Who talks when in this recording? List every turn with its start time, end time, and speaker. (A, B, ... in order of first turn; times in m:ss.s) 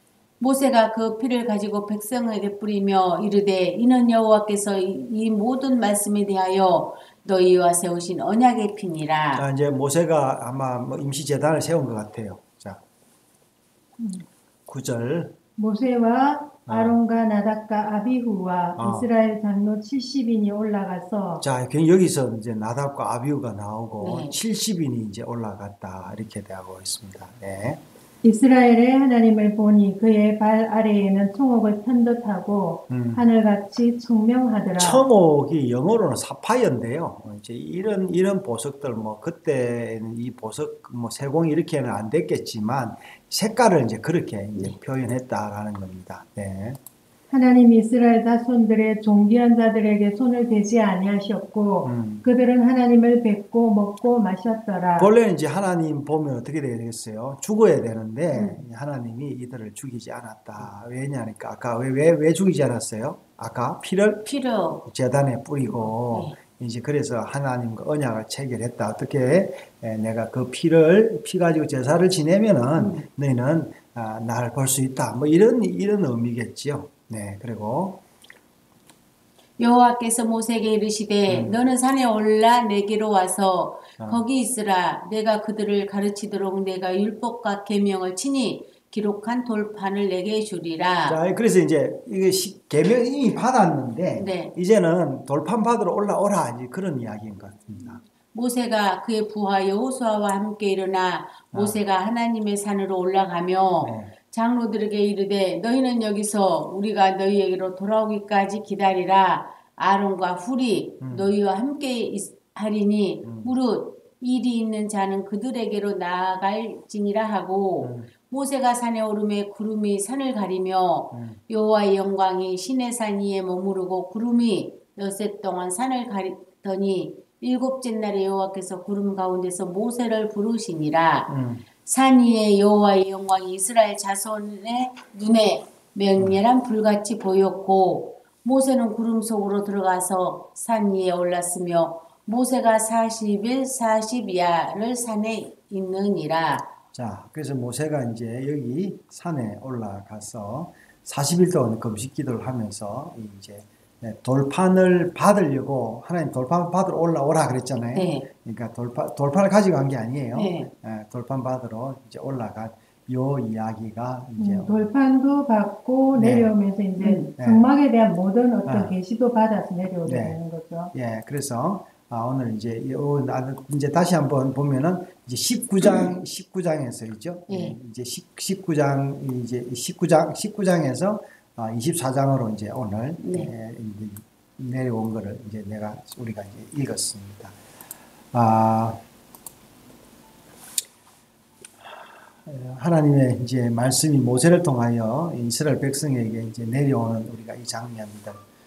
0:00.4-0:09.4 A
0:09.3-0:12.8 B
0:14.0-0:14.2 C
0:14.7-0:15.4 B
0:15.6-0:21.4 C
0:16.6-0:17.0 B
0:18.8-0:19.1 B
0:21.4-0:27.8 B
0:24.0-0:24.4 A
0:28.2-0:35.0 C
0:32.9-0:33.3 B
0:34.8-0:46.8 B
0:47.3-0:55.1 C
0:51.8-0:52.2 B
0:55.0-1:04.3 B
0:58.3-0:58.6 A
1:04.2-1:04.8 A
1:04.8-1:18.0 B
1:05.7-1:06.4 A
1:12.7-1:13.0 A
1:19.6-1:31.2 A
1:21.3-1:21.6 B
1:24.0-1:24.2 B
1:31.0-1:38.0 B
1:34.2-1:34.5 A
1:38.3-2:11.3 A
1:41.5-1:41.8 B
1:43.8-1:44.1 B
1:51.0-1:51.3 B
1:53.2-1:53.5 B
1:57.8-1:58.1 B
2:01.1-2:01.4 B
2:11.3-2:11.6 B
2:11.8-2:26.7 A
2:26.9-2:44.9 B
2:37.9-2:38.3 A
2:40.3-2:40.7 A
2:44.4-2:50.9 C
2:46.1-2:46.5 B
2:47.0-2:47.3 A
2:47.4-2:47.7 B
2:48.6-2:48.9 B
2:50.0-2:50.4 B
2:50.9-3:07.5 B
2:57.5-2:57.8 A
3:03.2-3:03.5 A
3:08.3-3:09.0 B
3:12.4-3:18.4 B